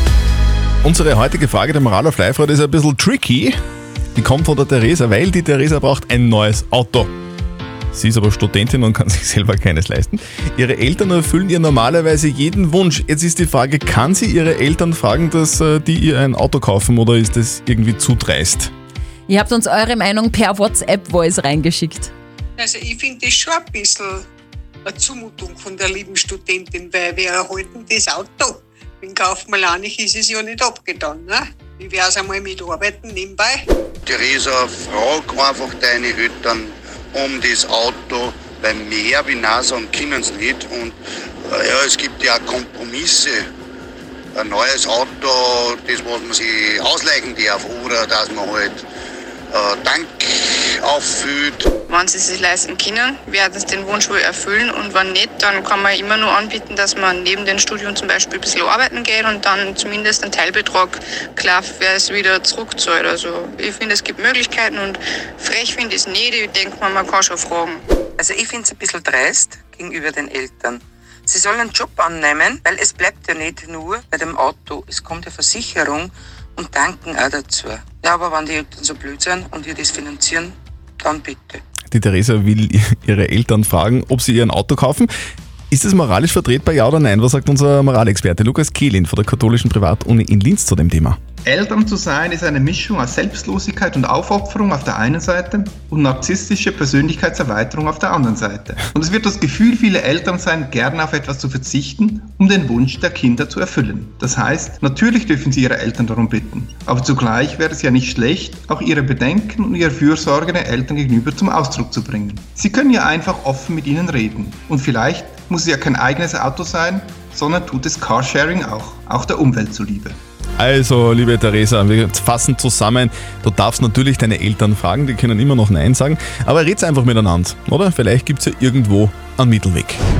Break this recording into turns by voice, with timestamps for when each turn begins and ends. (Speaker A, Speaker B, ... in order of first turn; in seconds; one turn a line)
Speaker A: 0.8-3.5
Speaker A: 4.2-7.1
Speaker A: 7.9-18.7
Speaker B: 19.3-22.1
Speaker C: 22.6-24.3
Speaker C: 24.9-33.7
Speaker D: 34.1-43.5
Speaker D: 44.4-48.8
Speaker D: 49.5-51.7
Speaker E: 51.9-67.8
Speaker F: 68.2-81.6
Speaker A: 81.9-85.1
Speaker A: 85.7-91.2
Speaker G: 91.5-120.2
Speaker A: 120.6-130.0